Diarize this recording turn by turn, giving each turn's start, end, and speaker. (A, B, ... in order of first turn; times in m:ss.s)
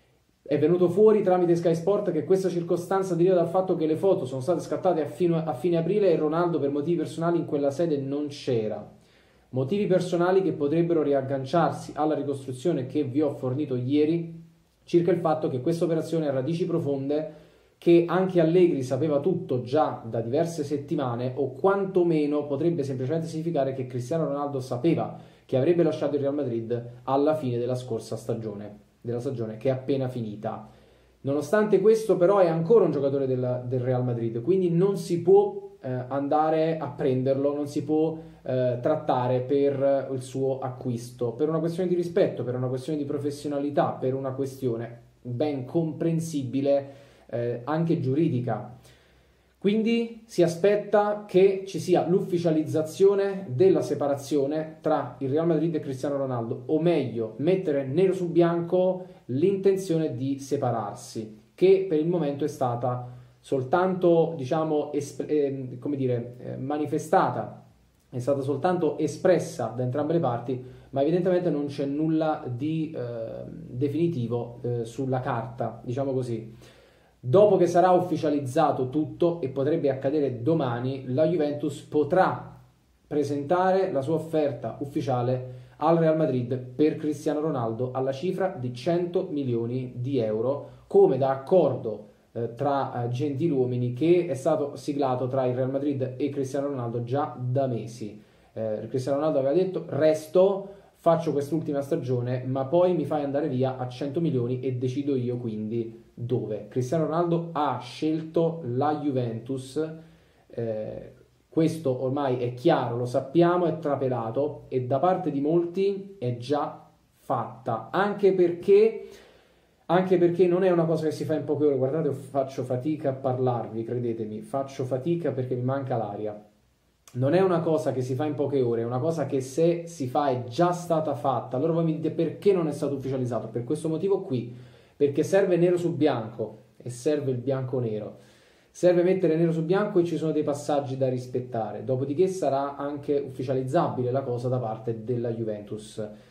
0:00.5-0:08.9 A
0:09.5-0:30.7 A
0:31.2-0:48.7 A
0:49.6-1:07.6 A
1:08.1-1:16.5 A
1:17.2-1:50.0 A
1:50.5-1:59.1 A
1:59.9-2:06.4 A
2:07.2-2:18.2 A
2:18.7-2:26.1 A